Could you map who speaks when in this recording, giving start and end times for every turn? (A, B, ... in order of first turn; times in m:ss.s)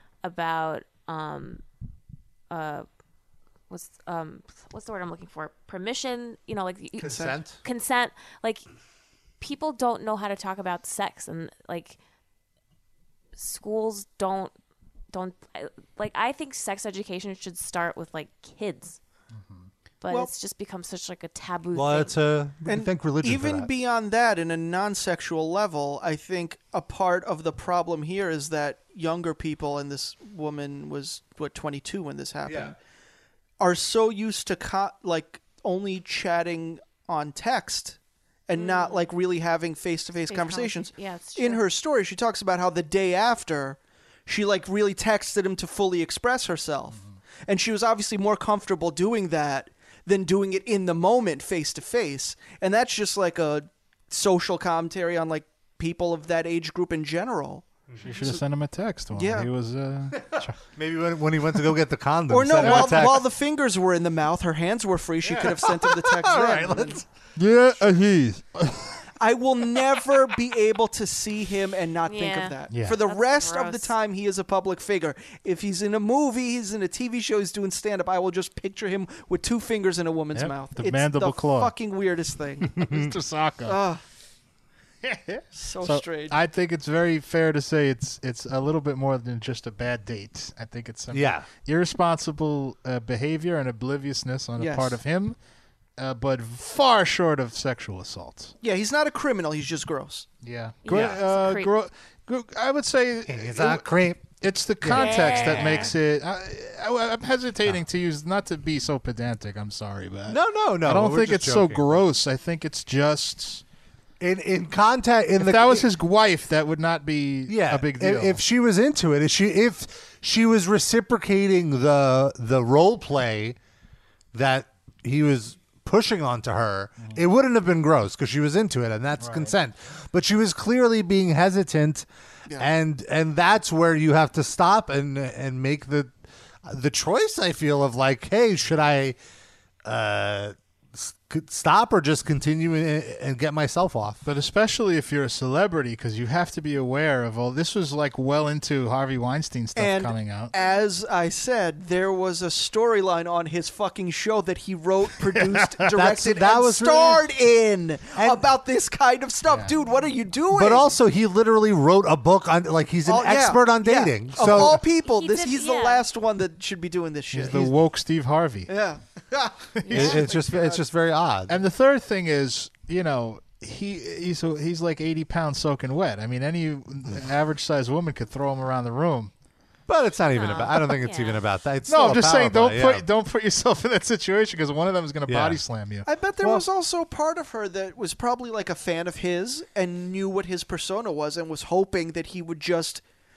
0:00.2-0:01.6 A
0:02.5-0:02.9 A
0:03.7-0:08.6 A
0:07.0-0:07.6 B
0:07.0-0:07.3 C
0:09.4-0:12.0 A
0:13.3-0:14.5 A
0:15.1-0:19.0 A
0:19.3-0:19.7 D
0:20.0-0:22.1 A
0:21.7-0:23.7 B
0:22.7-0:32.8 C
0:32.4-0:32.7 B
0:33.6-0:57.6 C
0:38.5-0:39.2 A
0:40.3-0:41.6 A
0:58.0-1:00.6 D
0:59.1-0:59.5 C
1:00.2-1:03.3 B
1:02.3-1:07.0 C
1:02.6-1:03.2 D
1:05.2-1:07.0 B
1:07.4-1:09.0 D
1:09.2-1:22.8 C
1:12.0-1:13.9 A
1:12.7-1:13.0 D
1:20.3-1:21.7 D
1:22.7-1:23.8 D
1:22.8-1:23.1 B
1:23.6-1:24.0 C
1:25.0-1:35.4 D
1:25.5-1:26.4 C
1:31.1-1:31.5 B
1:34.6-1:35.0 C
1:36.0-1:38.5 D
1:38.6-1:40.3 C
1:40.4-1:53.6 D
1:40.8-1:41.7 A
1:40.9-1:41.2 B
1:43.3-1:44.2 B
1:44.8-1:45.9 B
1:44.9-1:45.9 A
1:50.3-1:52.0 B
1:54.2-1:55.9 B
1:55.4-1:58.4 D
1:57.5-2:03.6 B
2:04.3-2:12.0 B
2:09.2-2:09.5 D
2:12.6-2:19.2 B
2:19.8-2:24.2 B
2:24.2-2:30.5 D
2:29.8-2:41.0 C
2:30.5-2:30.8 A
2:35.3-2:35.9 D
2:35.9-2:37.2 B
2:38.1-2:38.5 B
2:40.5-2:44.8 B
2:43.0-2:47.7 C
2:45.0-2:46.0 A
2:47.3-2:48.7 D
2:48.7-2:50.8 C
2:49.9-2:50.2 D
2:49.9-2:51.6 B
2:51.5-2:59.3 D
2:59.9-3:03.0 B
3:00.3-3:01.4 A
3:01.9-3:06.1 D
3:05.3-3:05.6 B
3:06.0-3:13.0 C
3:06.4-3:06.7 B